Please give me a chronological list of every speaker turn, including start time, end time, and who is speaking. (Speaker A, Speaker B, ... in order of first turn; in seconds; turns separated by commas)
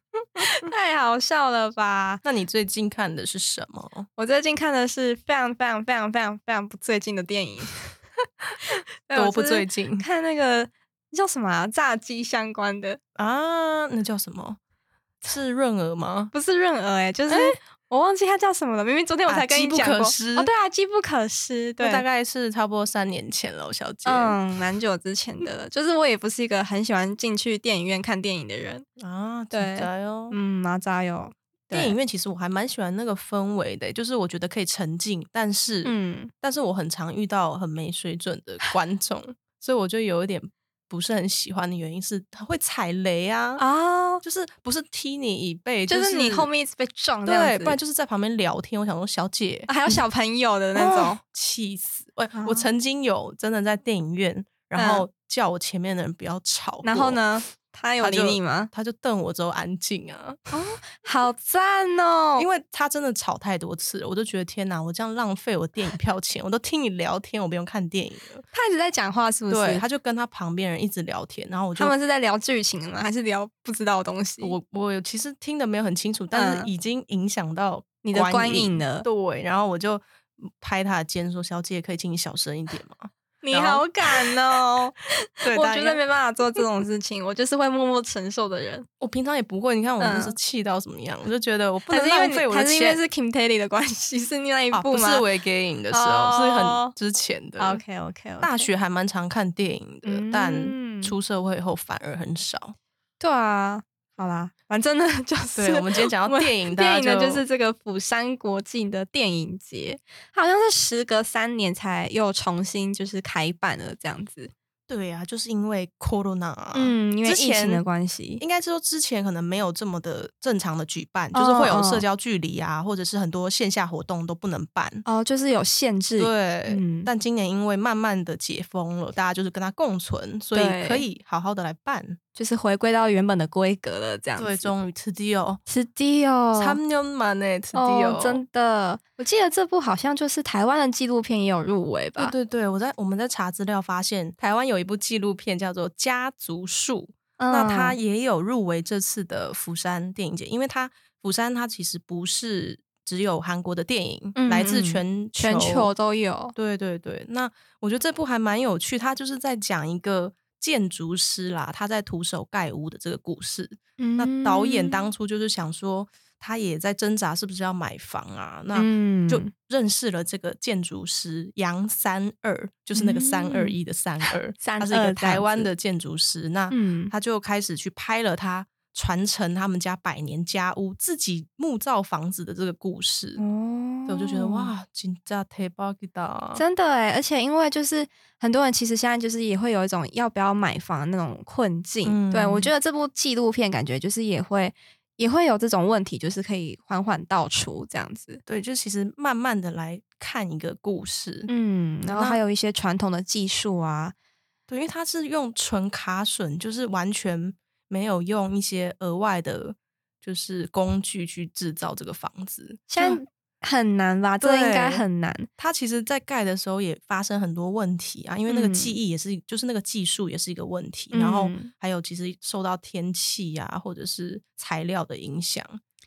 Speaker A: 0.4-2.2, Speaker B: 2.2-4.1, Speaker A: 4.2-8.0, Speaker A: 9.1-13.0, Speaker B: 9.1-10.1, Speaker B: 13.2-14.6, Speaker B: 15.2-16.3, Speaker A: 16.3-22.0, Speaker B: 17.3-17.6, Speaker B: 19.3-20.5, Speaker B: 21.8-24.4, Speaker A: 24.1-28.9, Speaker B: 29.0-30.4, Speaker A: 29.5-32.0, Speaker B: 31.7-43.6, Speaker A: 35.9-36.3, Speaker A: 43.6-44.2, Speaker B: 44.2-46.5, Speaker A: 45.9-47.8, Speaker B: 47.2-50.0, Speaker A: 49.7-51.2, Speaker B: 50.8-57.3, Speaker A: 52.4-52.6, Speaker A: 54.7-55.1, Speaker A: 56.8-58.7, Speaker B: 58.0-60.4, Speaker A: 60.5-62.5, Speaker B: 62.4-68.5, Speaker A: 68.5-69.8, Speaker B: 69.5-72.0, Speaker A: 71.8-74.5, Speaker B: 74.4-84.3, Speaker A: 76.3-76.7, Speaker A: 78.0-79.1, Speaker A: 83.4-88.9, Speaker B: 85.4-86.0, Speaker B: 89.0-93.0, Speaker A: 90.0-90.4, Speaker A: 91.9-95.2, Speaker B: 94.7-97.8, Speaker A: 95.9-96.9, Speaker A: 97.6-98.7, Speaker B: 98.4-102.8, Speaker A: 100.0-101.2, Speaker A: 103.2-114.5, Speaker B: 105.6-107.4, Speaker B: 114.9-117.8, Speaker A: 116.7-118.4, Speaker B: 118.4-125.0, Speaker A: 121.3-122.0, Speaker A: 125.0-127.1, Speaker B: 126.2-132.2, Speaker A: 130.5-131.1, Speaker A: 132.4-134.7, Speaker B: 134.4-135.6, Speaker A: 135.7-136.8, Speaker B: 136.6-138.4, Speaker A: 137.7-142.3, Speaker B: 142.2-155.9, Speaker A: 147.4-148.0, Speaker A: 154.4-156.5, Speaker B: 156.6-183.4, Speaker A: 164.0-165.1, Speaker A: 168.7-169.5, Speaker A: 172.9-173.8, Speaker A: 174.3-175.7, Speaker A: 176.7-177.1, Speaker A: 183.4-184.7, Speaker B: 184.1-186.6, Speaker A: 186.6-198.4, Speaker B: 192.0-192.7, Speaker B: 198.5-201.5, Speaker A: 201.5-204.1, Speaker B: 202.1-202.4, Speaker B: 204.7-213.2, Speaker A: 212.9-215.5, Speaker B: 214.4-215.0, Speaker B: 215.6-225.8, Speaker A: 218.5-219.0, Speaker A: 221.1-221.7